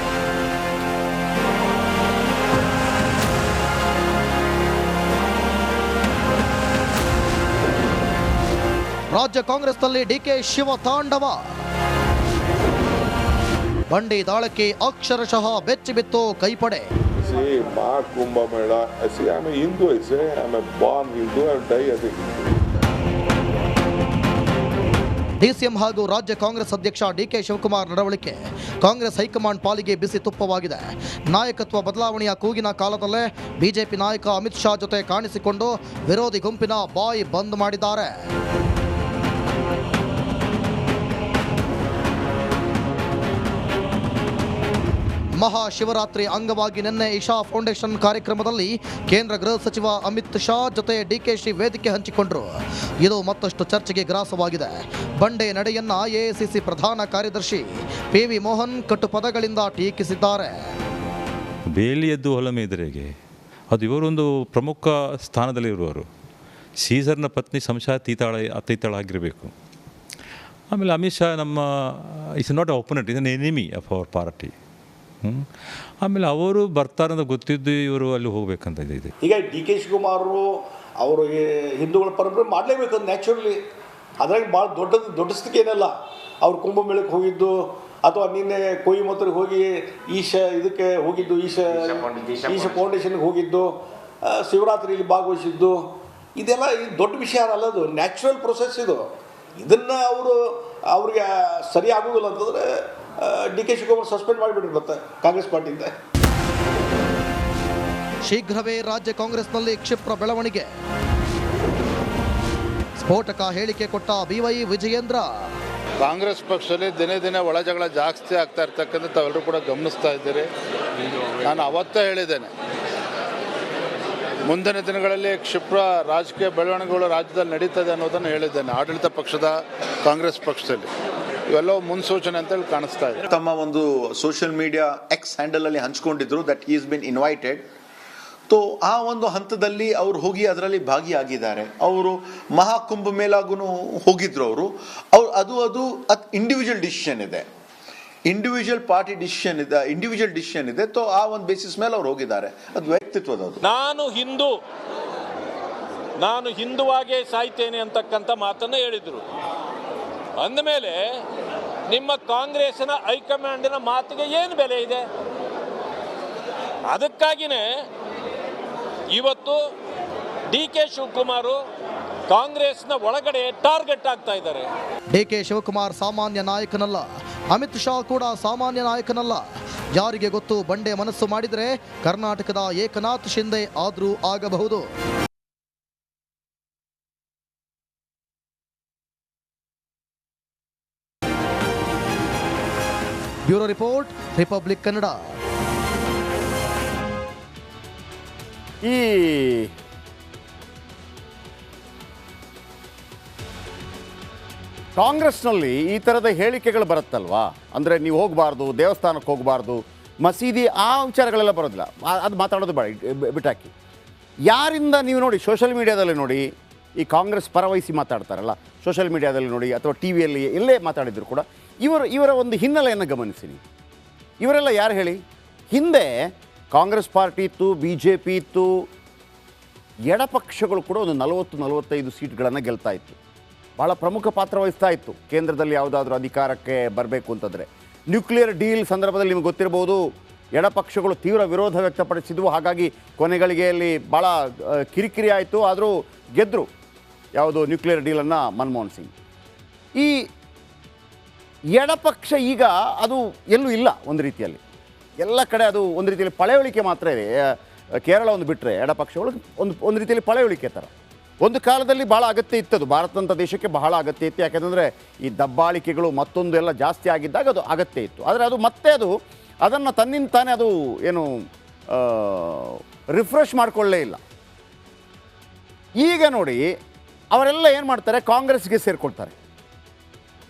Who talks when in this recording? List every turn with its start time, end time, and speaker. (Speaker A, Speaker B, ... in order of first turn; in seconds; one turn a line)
Speaker A: 9.1-11.4
Speaker A: 13.9-16.8
Speaker B: 17.2-22.5
Speaker A: 25.4-38.1
Speaker A: 45.4-52.5
Speaker A: 53.0-60.5
Speaker C: 61.7-63.1
Speaker C: 63.7-66.1
Speaker C: 66.8-69.5
Speaker C: 70.7-74.5
Speaker C: 76.0-79.1
Speaker D: 79.2-83.6
Speaker D: 84.2-99.0
Speaker D: 99.6-105.9
Speaker A: 108.3-110.7
Speaker A: 113.0-115.5
Speaker E: 116.0-120.5
Speaker E: 121.5-122.5
Speaker E: 124.5-129.5
Speaker E: 130.1-130.9
Speaker E: 131.5-133.1
Speaker F: 133.3-137.7
Speaker F: 138.5-147.5
Speaker F: 148.3-153.6
Speaker G: 153.6-154.5
Speaker G: 156.2-159.2
Speaker G: 160.4-161.0
Speaker G: 161.9-165.1
Speaker G: 166.9-167.7
Speaker G: 169.1-169.6
Speaker G: 170.5-171.6
Speaker G: 172.3-174.7
Speaker A: 175.1-179.4
Speaker A: 179.9-184.9
Speaker A: 193.5-195.2
Speaker H: 198.8-199.7
Speaker H: 205.0-213.7
Speaker H: 214.5-216.5
Speaker H: 217.0-223.6
Speaker H: 224.4-225.2
Speaker H: 225.7-226.1
Speaker H: 226.7-228.7
Speaker H: 230.1-233.2
Speaker H: 233.8-240.0
Speaker H: 240.6-244.4
Speaker H: 244.9-246.7
Speaker H: 247.4-249.1
Speaker H: 251.8-254.6
Speaker H: 255.2-257.3
Speaker H: 258.0-260.9
Speaker H: 261.4-269.1
Speaker H: 269.6-271.3
Speaker H: 271.9-274.2
Speaker H: 276.0-276.7
Speaker H: 277.3-279.3